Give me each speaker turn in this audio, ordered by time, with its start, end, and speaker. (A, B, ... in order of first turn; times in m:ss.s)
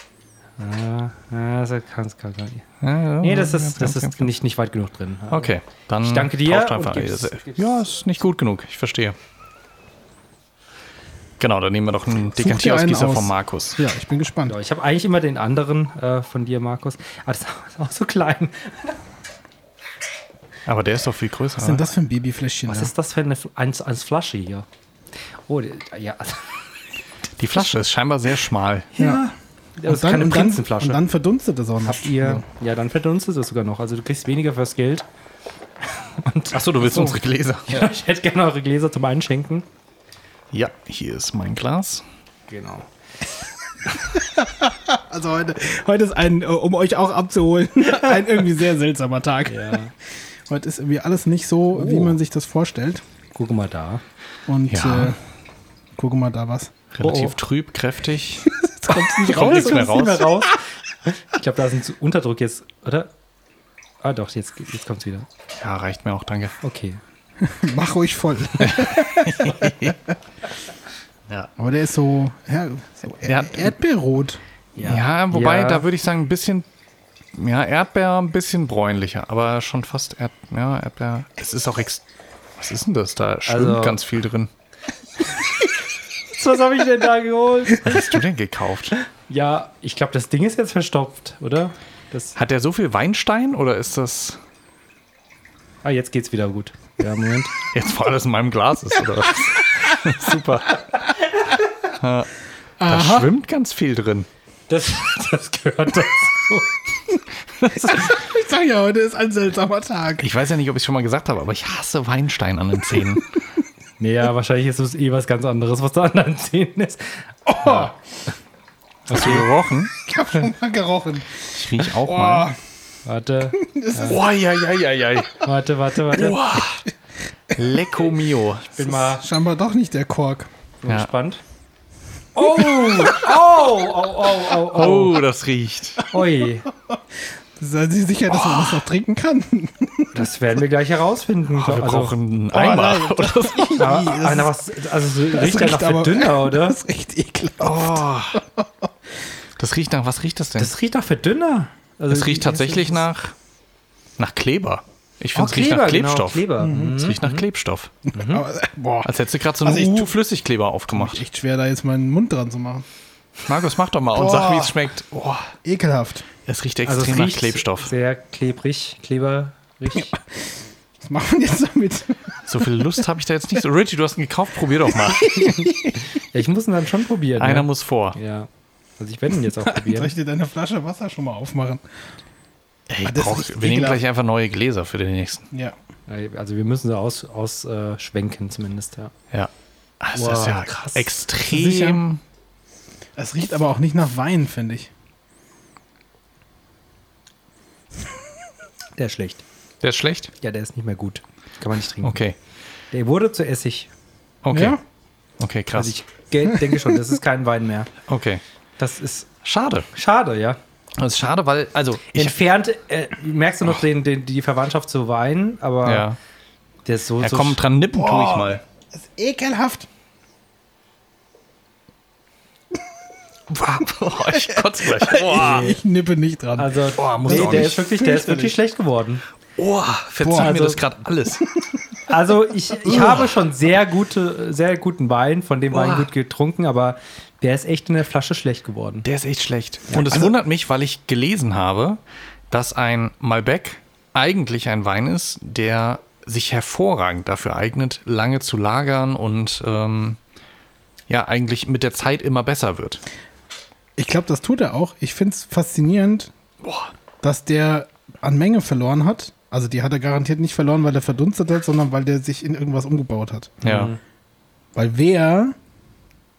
0:00.6-0:02.6 A
0:02.8-0:04.3 B
0:03.2-0:07.7 A
0:05.3-0:09.2 B
0:11.4-0:13.8 B
0:12.3-0:14.6 C
0:14.5-0:19.0 A
0:20.6-0:21.9 B
0:21.6-0:22.9 C
0:22.7-0:24.6 A
0:25.5-0:26.6 A
0:27.4-0:28.9 B
0:28.9-0:31.0 A
0:29.0-0:29.2 C
0:29.8-0:32.4 C
0:31.8-0:35.0 A
0:36.0-0:39.6 A
0:36.5-0:38.0 B
0:40.5-0:42.0 B
0:42.5-0:42.9 A
0:43.8-0:49.8 C
0:47.8-0:48.2 A
0:49.4-0:49.9 A
0:50.4-0:53.0 C
0:51.7-0:52.2 A
0:53.3-0:54.0 A
0:54.5-0:55.2 C
0:54.7-0:55.1 B
0:56.0-0:56.7 C
0:56.9-1:00.3 B
0:57.0-0:57.4 A
0:58.5-0:59.9 C
0:59.0-1:03.1 A
1:04.0-1:05.3 A
1:05.6-1:06.6 B
1:06.6-1:07.0 A
1:07.4-1:10.0 C
1:08.6-1:10.0 B
1:11.6-1:14.4 C
1:13.2-1:13.7 B
1:14.8-1:15.8 A
1:14.8-1:16.6 B
1:17.3-1:22.0 B
1:22.6-1:24.5 B
1:23.5-1:24.0 A
1:26.3-1:28.1 A
1:27.8-1:28.9 B
1:29.3-1:32.4 A
1:32.4-1:34.4 B
1:35.8-1:37.5 A
1:37.7-1:40.8 B
1:41.8-1:42.3 B
1:42.8-1:43.3 C
1:42.8-1:44.3 B
1:44.7-1:46.8 A
1:47.7-1:48.1 A
1:47.8-1:50.3 C
1:50.2-1:53.3 B
1:54.0-1:57.9 A
1:59.1-2:00.4 B
1:59.1-1:59.4 A
2:00.0-2:02.6 C
2:01.5-2:02.5 B
2:03.0-2:04.2 A
2:03.6-2:04.2 C
2:04.0-2:05.5 B
2:05.4-2:06.4 A
2:06.0-2:06.8 B
2:07.5-2:08.7 B
2:08.7-2:09.2 A
2:08.8-2:10.5 C
2:10.8-2:11.4 A
2:12.3-2:15.2 A
2:14.7-2:16.0 B
2:16.1-2:16.7 A
2:17.6-2:20.3 C
2:20.1-2:22.2 A
2:21.5-2:23.8 B
2:22.5-2:24.6 C
2:23.8-2:26.8 A
2:25.2-2:28.7 C
2:27.6-2:28.4 B
2:29.6-2:30.7 B
2:30.6-2:33.0 A
2:32.1-2:33.3 B
2:34.2-2:37.9 B
2:35.3-2:37.4 A
2:36.6-2:37.0 C
2:38.1-2:40.1 C
2:38.1-2:38.4 A
2:39.0-2:41.2 B
2:40.9-2:42.8 C
2:43.4-2:45.5 B
2:44.1-2:44.8 C
2:45.6-2:46.3 C
2:46.4-2:47.9 B
2:46.8-2:50.1 A
2:50.2-2:52.7 C
2:52.5-2:55.5 B
2:55.1-2:55.6 C
2:55.2-3:00.1 A
2:57.4-2:58.2 B
2:59.5-3:01.8 C
3:02.9-3:05.5 B
3:03.0-3:04.0 C
3:05.5-3:05.8 C
3:06.1-3:09.1 A
3:09.3-3:12.2 B
3:10.1-3:11.1 A
3:11.5-3:12.0 C
3:13.2-3:14.9 C
3:19.0-3:19.4 A
3:19.8-3:20.3 B
3:20.4-3:22.2 A
3:22.0-3:22.4 B
3:22.9-3:23.9 A
3:24.4-3:24.8 B
3:24.5-3:24.8 C
3:25.4-3:25.9 B
3:25.7-3:27.9 A
3:26.6-3:26.9 C
3:28.1-3:28.4 B
3:28.8-3:29.3 A
3:29.4-3:29.9 B
3:29.9-3:30.6 A
3:31.0-3:32.4 B
3:32.1-3:36.1 A
3:35.8-3:36.2 B
3:36.8-3:37.6 A
3:37.2-3:38.6 B
3:37.9-3:39.9 C
3:43.5-3:45.8 B
3:44.6-3:48.5 C
3:45.3-3:45.8 A
3:46.6-3:49.2 A
3:46.9-3:47.9 B
3:49.6-3:51.5 B
3:50.2-3:50.6 C
3:50.3-3:50.8 A
3:52.1-3:59.0 A
3:52.9-3:53.2 B
3:52.9-3:53.2 C
3:55.7-3:56.1 B
3:59.0-4:02.0 B
3:59.9-4:00.2 A
4:02.5-4:10.2 B
4:11.1-4:13.0 B
4:14.0-4:16.3 C
4:16.6-4:16.9 B
4:17.2-4:23.6 C
4:23.6-4:23.9 B
4:23.6-4:24.0 A
4:24.7-4:25.6 C